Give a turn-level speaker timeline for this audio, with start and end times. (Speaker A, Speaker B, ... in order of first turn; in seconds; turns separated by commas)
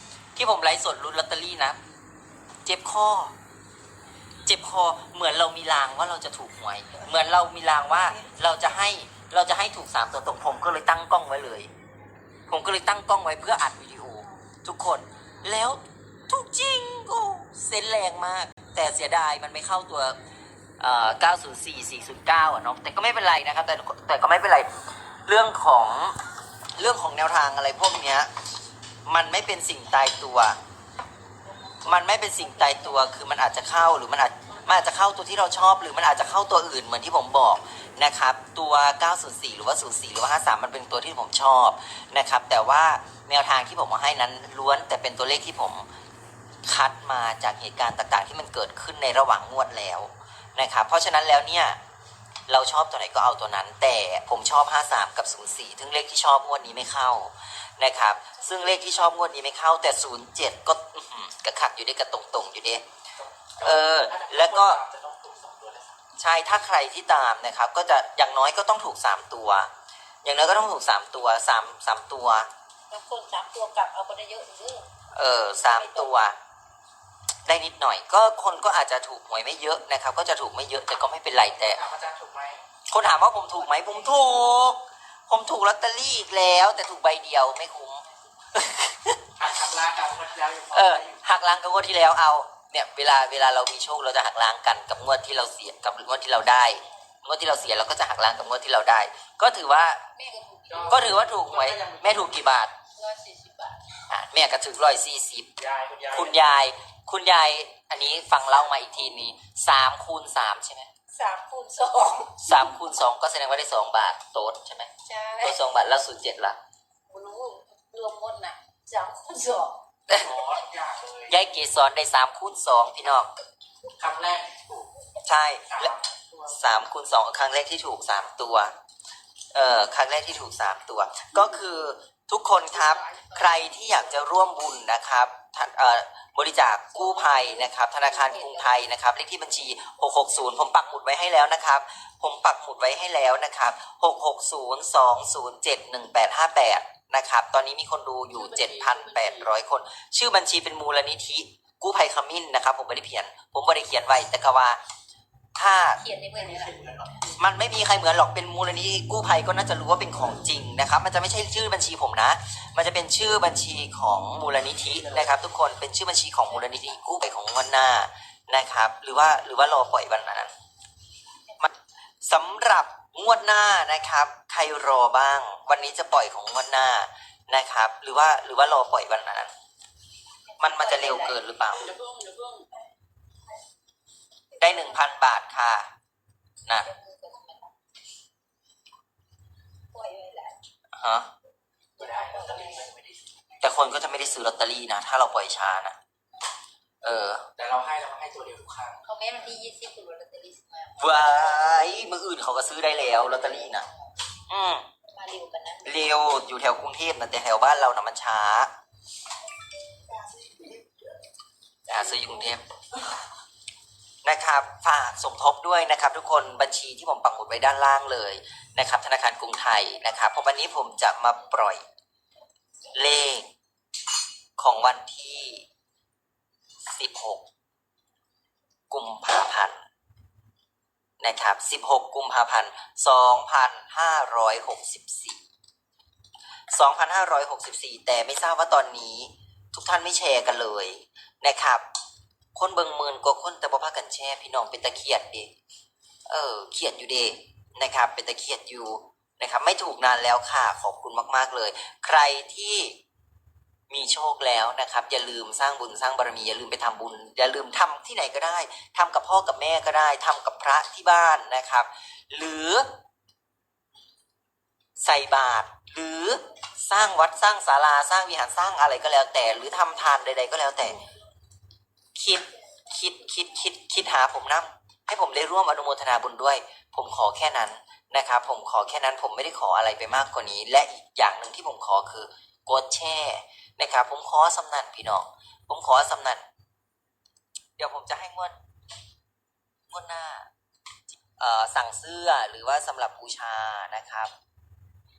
Speaker A: 0.3-1.8, Speaker A: 2.6-3.4, Speaker A: 4.5-11.7, Speaker A: 12.5-20.2, Speaker A: 20.8-24.7, Speaker A: 25.3-26.2, Speaker A: 26.8-28.3, Speaker A: 29.1-30.6, Speaker A: 31.9-45.9, Speaker B: 32.1-32.8, Speaker A: 46.6-51.8, Speaker A: 52.5-62.8, Speaker C: 63.2-66.0, Speaker A: 63.6-64.8, Speaker A: 66.2-69.7, Speaker A: 70.2-72.5, Speaker B: 72.9-74.9, Speaker A: 75.1-76.4, Speaker B: 75.5-76.2, Speaker A: 77.5-81.8, Speaker C: 81.7-82.7, Speaker A: 82.9-89.3, Speaker C: 89.4-91.2, Speaker A: 90.7-100.0, Speaker B: 100.2-101.3, Speaker C: 100.7-102.5, Speaker A: 100.9-102.7, Speaker B: 103.0-104.0, Speaker A: 104.1-105.5, Speaker C: 105.6-106.4, Speaker A: 106.1-110.9, Speaker B: 111.1-112.5, Speaker A: 112.4-116.6, Speaker B: 115.0-115.6, Speaker B: 117.1-119.8, Speaker C: 120.1-121.4, Speaker A: 121.3-123.3, Speaker C: 123.9-124.9, Speaker A: 125.2-126.0, Speaker C: 125.7-126.6, Speaker A: 126.5-128.8, Speaker A: 129.5-154.8, Speaker C: 132.7-134.1, Speaker B: 137.0-138.8, Speaker B: 148.4-149.4, Speaker A: 155.6-156.0, Speaker B: 155.9-156.8, Speaker C: 156.3-157.3, Speaker A: 157.4-170.5, Speaker A: 171.6-179.5, Speaker A: 180.6-181.9, Speaker B: 180.6-182.7, Speaker C: 182.0-182.5, Speaker A: 184.6-185.9, Speaker B: 184.6-185.1, Speaker B: 186.7-187.7, Speaker B: 189.9-190.6, Speaker A: 190.9-191.3, Speaker B: 192.0-192.9, Speaker C: 192.0-193.8, Speaker A: 193.6-196.0, Speaker A: 197.0-197.5, Speaker C: 197.6-199.0, Speaker B: 199.0-201.7, Speaker A: 201.0-203.9, Speaker A: 204.5-204.9, Speaker B: 205.1-206.0, Speaker A: 205.8-208.7, Speaker A: 211.9-212.6, Speaker A: 214.2-221.8, Speaker A: 222.9-223.5, Speaker A: 224.6-225.7, Speaker A: 226.8-227.4, Speaker A: 228.9-229.8, Speaker A: 231.2-235.4, Speaker A: 236.7-241.8, Speaker A: 242.6-245.5, Speaker A: 246.3-253.0, Speaker A: 253.9-262.9, Speaker A: 265.0-271.1, Speaker A: 272.1-286.4, Speaker A: 287.8-288.6, Speaker A: 289.9-290.5, Speaker A: 291.1-294.3